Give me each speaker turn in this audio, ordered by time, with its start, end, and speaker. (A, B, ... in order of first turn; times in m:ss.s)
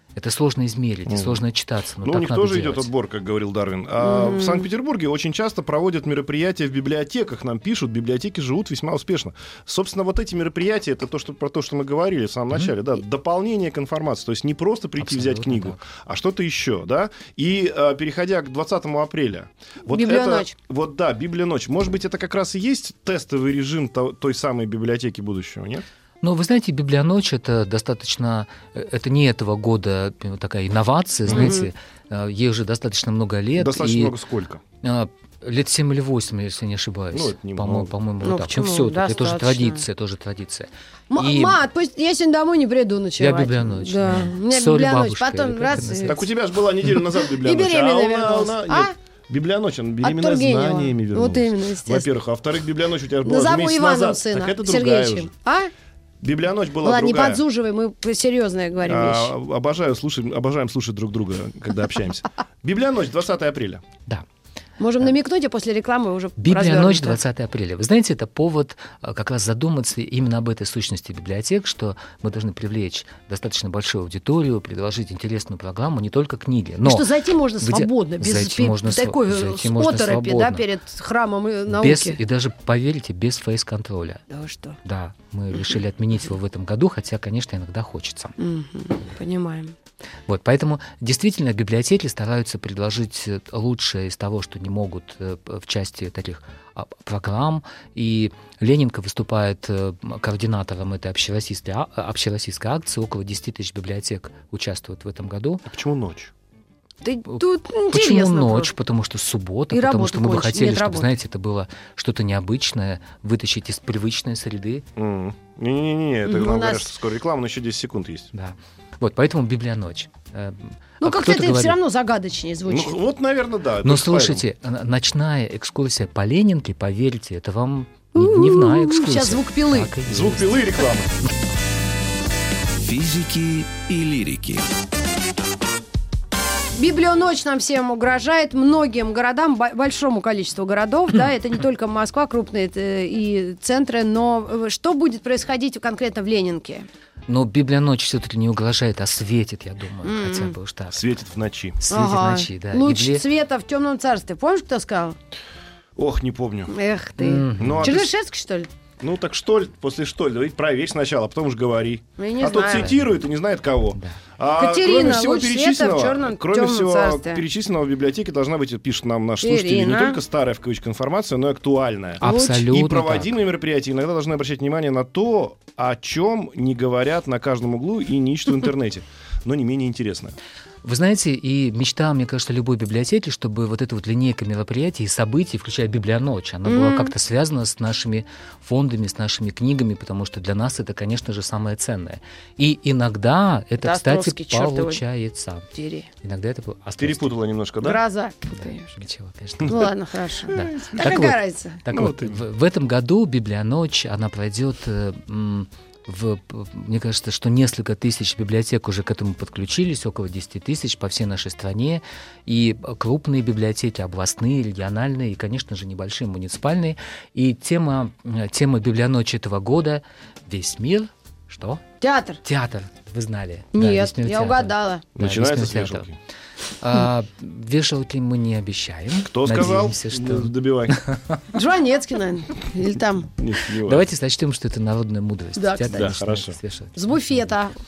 0:00.2-0:02.9 A
0:01.1-0:01.4 B
0:02.0-0:25.8 B
0:04.0-0:04.7 C
0:15.0-0:15.9 A
0:19.9-0:20.5 C
0:26.2-0:34.2 A
0:31.3-0:31.6 B
0:31.3-0:31.7 C
0:33.6-0:34.6 B
0:34.8-0:41.6 A
0:37.1-0:37.9 B
0:38.2-0:39.8 C
0:41.1-0:46.2 C
0:43.2-0:46.3 A
0:45.8-0:55.3 B
0:47.3-0:48.9 C
0:50.0-0:52.1 C
0:53.2-0:55.7 C
0:56.2-0:57.4 B
0:56.8-0:59.3 C
0:58.9-1:03.8 B
1:04.8-1:07.2 C
1:06.4-1:17.1 A
1:16.8-1:22.2 C
1:17.6-1:20.6 A
1:21.7-1:24.2 A
1:24.3-1:24.8 C
1:24.8-1:28.3 A
1:28.4-1:29.8 C
1:30.3-1:45.7 A
1:45.7-1:46.3 B
1:47.0-1:48.7 C
1:47.3-1:54.9 A
1:49.7-1:51.1 C
1:55.0-1:58.3 B
1:56.2-1:56.9 C
1:58.3-2:01.8 A
2:01.0-2:03.0 C
2:02.7-2:04.4 B
2:03.8-2:10.6 A
2:08.2-2:09.9 C
2:10.1-2:11.1 B
2:12.8-2:14.7 D
2:16.8-2:26.9 C
2:27.3-2:31.0 A
2:30.0-2:30.6 C
2:30.9-2:31.8 B
2:31.8-2:33.2 A
2:31.9-2:35.2 C
2:36.0-2:36.7 B
2:36.7-2:38.7 C
2:37.2-2:38.0 A
2:37.6-2:38.1 B
2:39.0-3:00.4 B
2:42.2-2:42.9 C
2:42.7-2:43.2 A
2:44.6-2:47.4 C
2:49.4-2:50.2 C
2:52.2-2:53.4 A
2:52.2-2:52.6 C
3:00.8-3:15.7 A
3:06.7-3:07.1 C
3:13.8-3:15.0 C
3:15.7-3:16.1 C
3:16.2-3:17.3 A
3:17.0-3:18.0 B
3:17.8-3:18.9 C
3:18.5-3:19.9 A
3:19.7-3:21.8 C
3:20.6-3:41.8 A
3:20.6-3:21.3 B
3:21.9-3:22.4 B
3:42.0-3:42.4 C
3:42.4-3:46.1 A
3:43.7-3:45.1 C
3:45.2-3:46.2 B
3:46.8-3:51.4 A
3:49.2-3:51.0 B
3:51.5-3:53.3 C
3:53.4-3:54.1 B
3:53.8-3:57.5 A
3:55.6-3:56.2 C
3:55.9-3:56.6 B
3:57.0-3:57.7 C